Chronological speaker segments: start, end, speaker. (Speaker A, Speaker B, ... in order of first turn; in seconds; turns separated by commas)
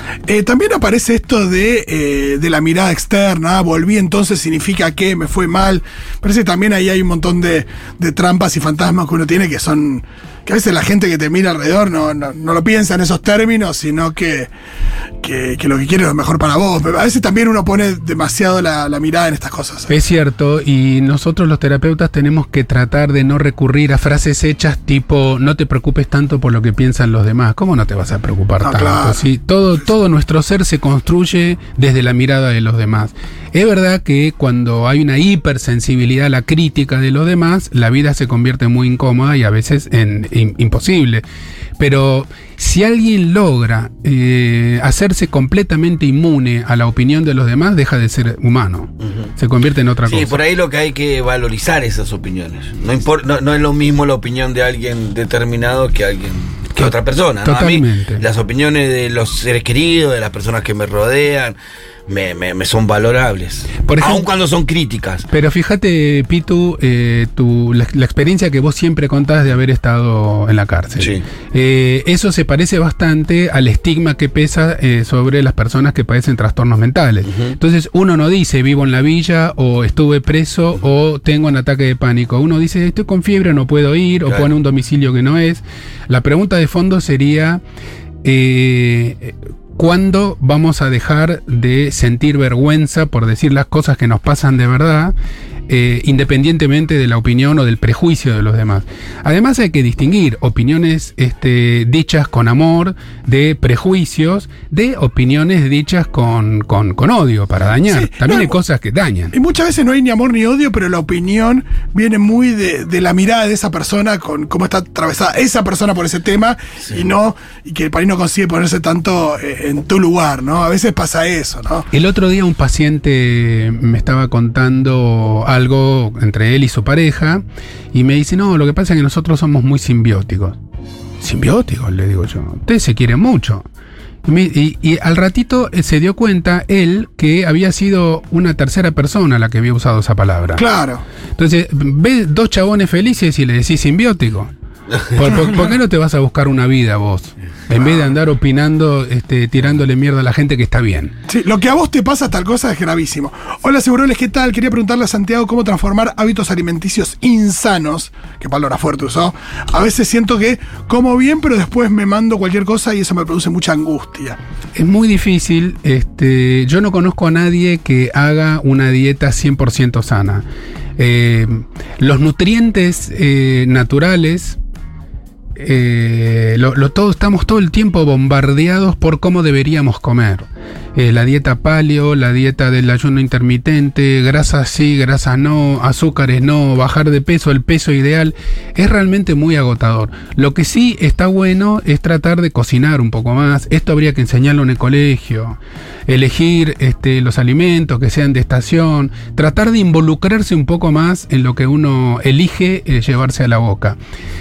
Speaker A: 0.3-14.5, Speaker A: 15.2-19.9, Speaker B: 19.9-41.2, Speaker A: 28.6-29.2, Speaker B: 41.8-50.4, Speaker C: 50.1-61.5, Speaker B: 56.8-58.2, Speaker C: 62.1-65.3, Speaker B: 63.8-64.2, Speaker B: 65.3-87.6, Speaker C: 71.0-71.2, Speaker B: 88.2-95.1, Speaker B: 95.7-109.3, Speaker A: 107.9-108.6, Speaker A: 109.3-121.9, Speaker B: 121.9-130.6, Speaker B: 131.2-133.6, Speaker B: 134.2-140.6, Speaker A: 140.5-141.0, Speaker B: 141.4-144.5, Speaker B: 145.0-151.1, Speaker A: 147.7-148.1, Speaker A: 151.3-164.4, Speaker B: 164.7-170.4, Speaker B: 171.0-174.6, Speaker B: 175.5-204.0